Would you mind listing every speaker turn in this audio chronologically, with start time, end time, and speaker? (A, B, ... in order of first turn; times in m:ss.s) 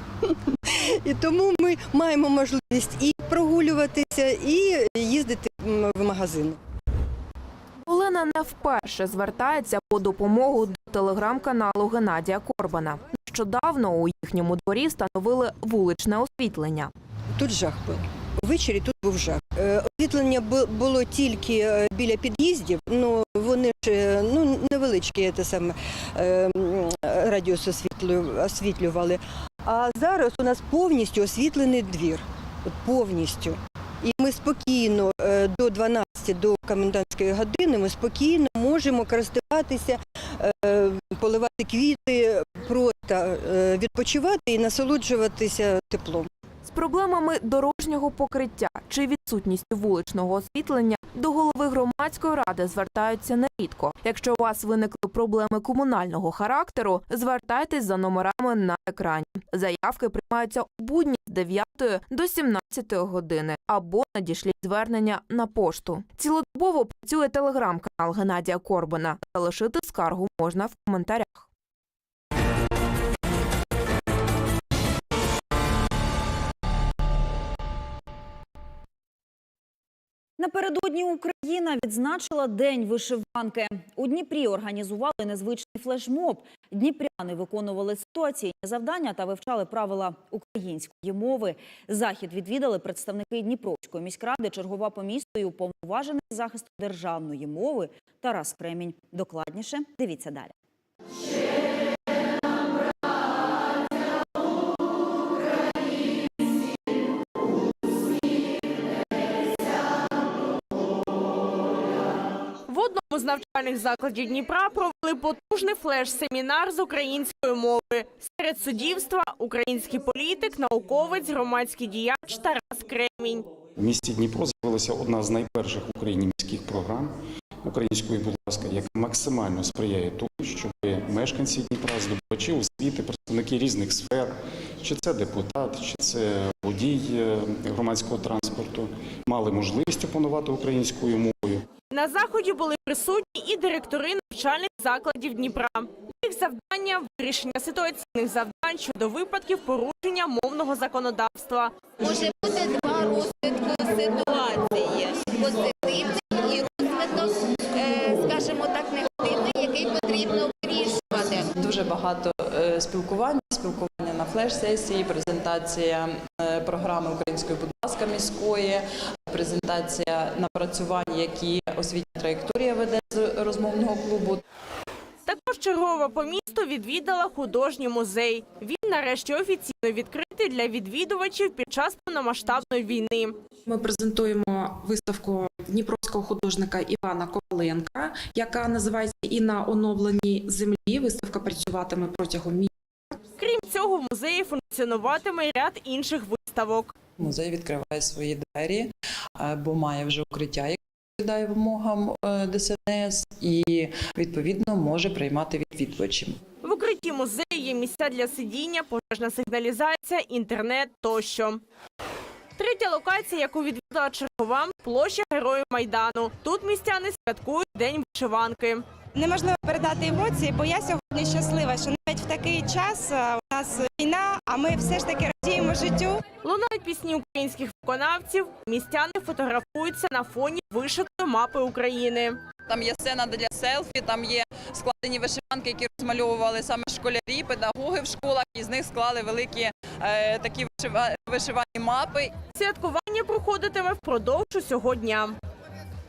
0:00.2-0:06.6 A
0:07.9-0:16.9 B
0:17.4-0:46.3 A
0:46.6-1:11.5 B
1:20.4-1:40.5 C
1:52.7-2:03.5 D
2:03.8-2:21.7 E
2:21.9-2:31.7 D
2:32.0-2:41.5 F
2:41.6-2:54.4 G
2:55.3-3:03.4 D
3:03.7-3:12.7 H
3:13.4-3:16.9 D
3:17.2-3:26.4 G
3:26.6-3:31.6 D
3:32.6-3:38.9 D
3:39.2-3:46.2 I
3:46.4-3:52.4 D
3:52.7-4:02.3 J
4:02.5-4:05.4 D